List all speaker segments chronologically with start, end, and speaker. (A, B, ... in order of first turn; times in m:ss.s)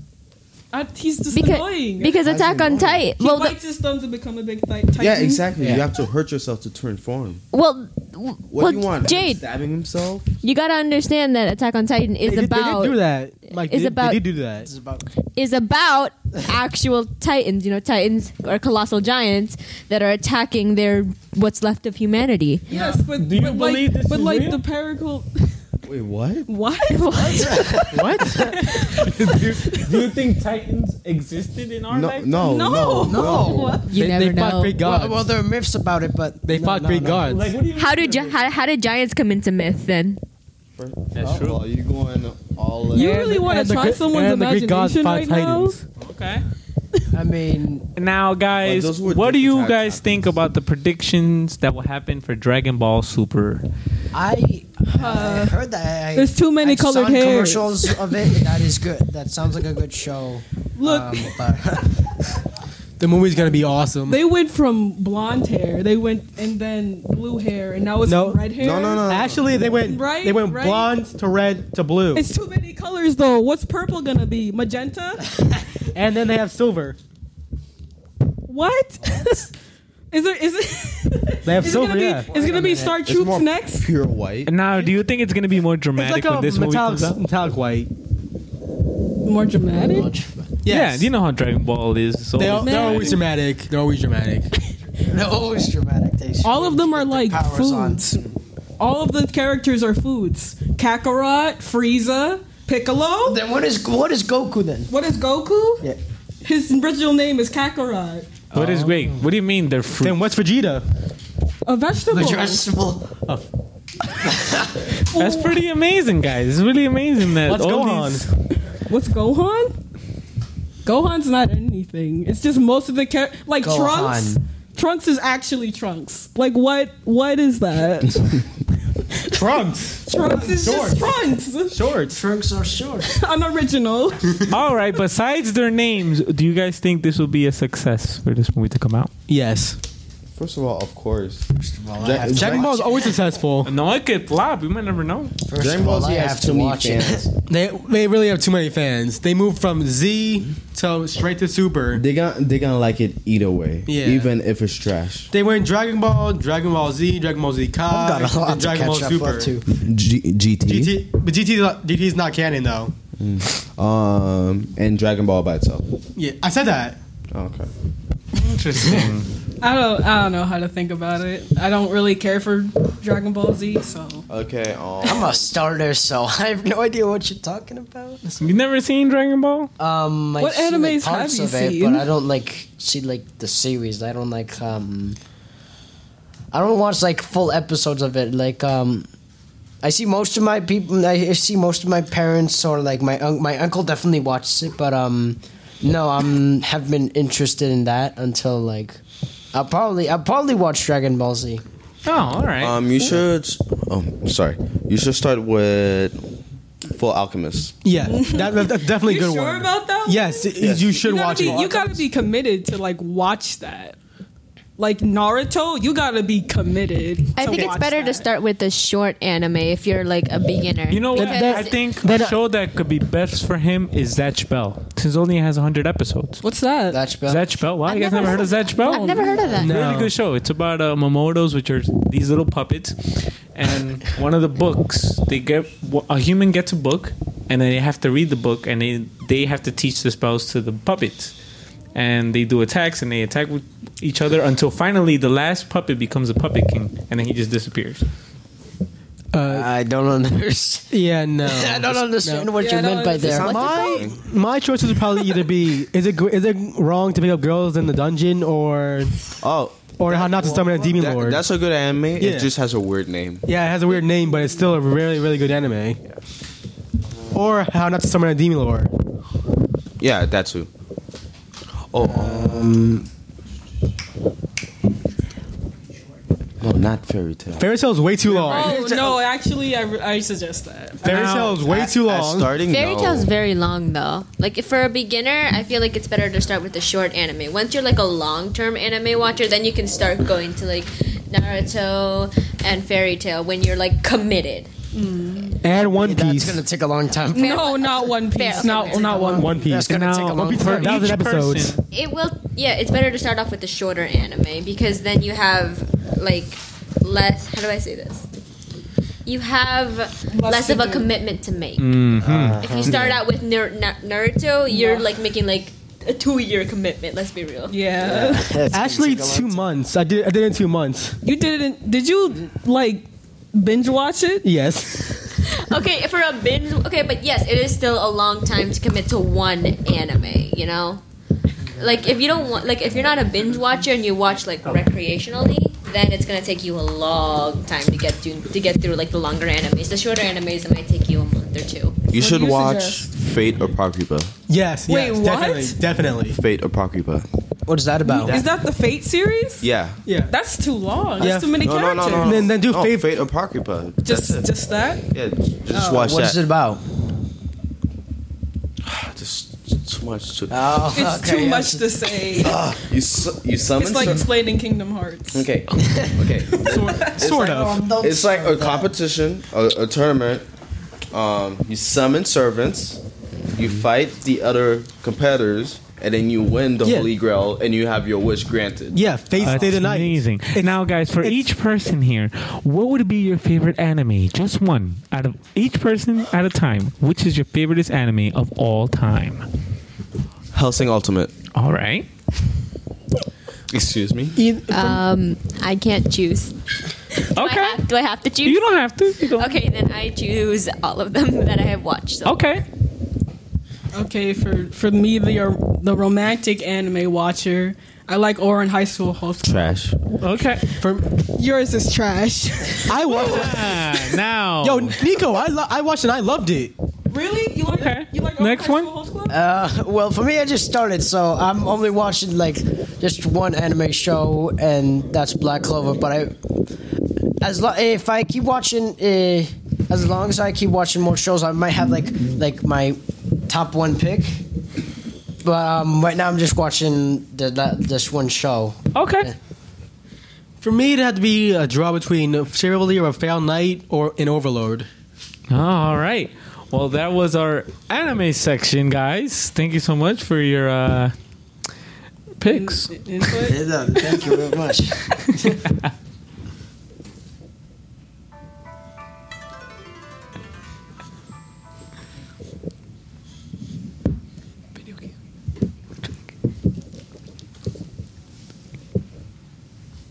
0:00.7-0:02.2 A
0:01.3-0:03.5 B
0:02.2-0:03.0 C
0:03.1-0:05.5 A
0:05.0-0:07.4 C
0:05.6-0:05.9 D
0:07.5-0:09.4 B
0:08.5-0:10.3 C
0:10.4-0:14.2 B
0:12.2-0:14.7 E
0:14.6-0:15.0 D
0:15.4-0:22.6 B
0:22.7-0:25.5 A
0:22.7-0:23.0 D
0:23.2-0:24.6 F
0:25.8-0:26.5 C
0:26.5-0:30.0 A
0:26.9-0:27.8 B
0:27.2-0:28.3 D
0:27.9-0:28.6 E
0:28.6-0:32.3 F
0:31.9-0:33.8 C
0:32.4-0:33.9 A
0:33.1-0:33.8 D
0:33.9-0:35.2 E
0:33.9-0:34.8 B
0:34.8-0:37.4 D
0:36.4-0:37.5 E
0:37.2-0:38.5 F
0:37.8-0:40.2 B
0:40.8-0:43.1 C
0:41.1-0:41.6 F
0:42.9-0:45.8 A
0:42.9-0:43.4 F
0:43.3-0:45.8 E
0:46.0-0:46.4 F
0:47.1-0:47.8 D
0:48.0-0:53.6 F
0:48.6-0:50.0 C
0:54.1-1:02.0 D
0:54.9-0:55.6 A
0:56.1-0:58.0 A
1:00.8-1:01.3 A
1:03.0-1:04.2 E
1:04.0-1:09.2 A
1:08.0-1:08.4 E
1:08.6-1:09.6 C
1:09.0-1:12.2 E
1:09.8-1:11.0 A
1:12.1-1:15.3 A
1:15.9-1:17.0 E
1:18.5-1:19.5 A
1:20.1-1:23.9 A
1:21.4-1:22.3 E
1:22.2-1:23.0 D
1:23.0-1:24.5 C
1:24.5-1:27.2 F
1:25.9-1:27.9 E
1:29.2-1:30.1 A
1:29.8-1:30.5 D
1:30.6-1:31.1 E
1:30.7-1:33.2 F
1:32.4-1:34.5 E
1:32.4-1:33.2 A
1:35.1-1:38.0 D
1:36.4-1:43.4 A
1:43.2-1:44.9 D
1:44.9-1:45.9 A
1:46.4-1:48.4 A
1:48.5-1:49.1 E
1:48.5-1:50.2 F
1:50.0-1:50.8 E
1:51.6-1:52.6 A
1:52.1-1:53.1 D
1:54.2-1:54.9 D
1:55.1-1:55.6 A
1:55.1-1:58.3 F
1:57.4-1:58.2 E
1:58.9-1:59.7 A
2:00.8-2:11.8 A
2:03.6-2:04.4 D
2:09.3-2:11.0 E
2:11.7-2:12.2 E
2:12.1-2:13.1 D
2:13.0-2:14.4 A
2:14.5-2:19.1 F
2:19.3-2:19.8 E
2:20.3-2:23.0 C
2:21.6-2:23.0 D
2:22.2-2:23.7 E
2:23.6-2:25.3 F
2:25.5-2:27.3 D
2:25.6-2:27.3 C
2:27.5-2:32.0 E
2:31.9-2:35.3 C
2:33.9-2:34.3 E
2:35.3-2:39.6 E
2:37.9-2:39.6 D
2:39.7-2:41.0 C
2:40.6-2:42.9 E
2:43.2-2:45.9 C
2:46.1-2:47.0 E
2:47.3-2:47.7 C
2:48.3-2:49.3 F
2:49.6-2:54.2 A
2:54.3-2:55.5 C
2:55.0-2:58.4 D
2:58.4-2:59.7 F
2:59.8-3:05.2 D
3:00.4-3:02.0 A
3:06.5-3:09.1 D
3:09.8-3:19.0 D
3:19.5-3:21.6 D
3:22.0-3:22.8 F
3:22.6-3:26.2 C
3:26.8-3:27.8 C
3:27.8-3:31.9 E
3:28.0-3:34.0 A
3:30.6-3:31.9 C
3:34.8-3:38.3 A
3:37.4-3:41.8 B
3:40.9-3:46.4 F
3:41.2-3:42.4 E
3:46.4-3:47.0 A
3:46.9-3:47.6 D
3:47.2-4:01.3 F
3:47.9-3:49.7 B
3:48.1-3:49.6 A
3:49.6-3:50.1 E
4:01.9-4:08.0 F
4:09.3-4:09.7 E
4:09.4-4:13.8 D
4:10.9-4:12.5 E
4:12.6-4:13.5 A
4:13.1-4:14.2 C
4:13.4-4:19.2 E
4:13.4-4:14.0 B
4:19.4-4:23.5 C
4:20.0-4:21.4 E
4:22.2-4:22.5 E
4:23.4-4:26.0 E
4:27.3-4:28.9 E
4:30.0-4:30.7 C
4:31.9-4:32.8 C
4:32.0-4:33.0 D
4:36.6-4:37.7 C
4:37.6-4:38.9 E
4:38.4-4:39.2 D
4:38.4-4:41.3 A
4:41.0-4:42.5 E
4:41.0-4:41.6 F
4:41.6-4:43.3 C
4:42.7-4:54.7 B
4:54.9-4:55.7 A
4:55.6-4:56.6 E
4:55.7-4:57.6 D
4:57.3-4:59.7 A
4:57.3-4:59.5 B
4:59.3-5:01.8 E
4:59.6-5:01.1 D
4:59.9-5:01.8 F
5:01.9-5:08.2 B
5:09.2-5:12.0 B
5:10.3-5:11.1 A
5:11.8-5:12.6 F
5:12.2-5:13.2 D
5:12.6-5:17.8 B
5:14.6-5:15.1 A
5:17.7-5:18.5 A
5:18.0-5:19.6 D
5:18.7-5:21.2 E
5:21.2-5:24.5 A
5:24.4-5:25.2 E
5:25.4-5:31.0 B
5:31.7-5:42.1 B
5:42.1-5:44.3 C
5:42.2-5:43.1 A
5:44.5-5:46.4 E
5:44.9-5:45.8 A
5:46.3-5:47.3 C
5:47.7-5:48.4 D
5:48.0-5:49.7 A
5:48.2-5:48.5 C
5:49.6-5:50.0 C
5:50.0-5:50.3 E
5:50.3-5:52.4 A
5:51.2-5:51.6 E
5:51.6-5:54.5 C
5:52.2-5:53.1 E
5:54.0-5:55.0 A
5:55.1-5:56.4 C
5:55.7-5:56.1 A
5:55.8-5:56.8 D
5:58.8-6:00.8 C
6:00.5-6:02.6 D
6:00.9-6:02.6 A
6:02.4-6:04.3 C
6:03.8-6:05.4 A
6:05.3-6:10.4 C
6:06.7-6:07.8 E
6:07.3-6:08.9 D
6:11.1-6:19.7 C
6:16.8-6:17.1 E
6:18.9-6:21.4 E
6:19.4-6:29.4 F
6:30.5-6:31.3 C
6:31.5-6:32.1 F
6:33.7-6:34.4 C
6:34.4-6:35.0 E
6:34.7-6:36.5 B
6:37.2-6:42.5 B
6:37.4-6:37.8 F
6:38.4-6:39.5 F
6:42.2-6:42.6 F
6:43.9-6:49.8 A
6:49.4-6:50.0 C
6:50.2-6:50.6 F
6:50.8-6:51.0 E
6:51.3-6:53.7 A
6:52.9-6:53.8 E
6:53.1-6:55.0 F
6:54.6-6:56.7 E
6:57.1-6:59.4 A
6:57.7-6:58.9 F
6:59.3-7:06.3 D
7:07.4-7:14.4 D
7:15.4-7:19.4 D
7:18.9-7:19.3 F
7:20.6-7:24.9 E
7:25.5-7:31.1 F
7:32.4-7:32.9 F
7:32.4-7:33.6 A
7:33.4-7:35.5 D
7:44.8-7:45.0 F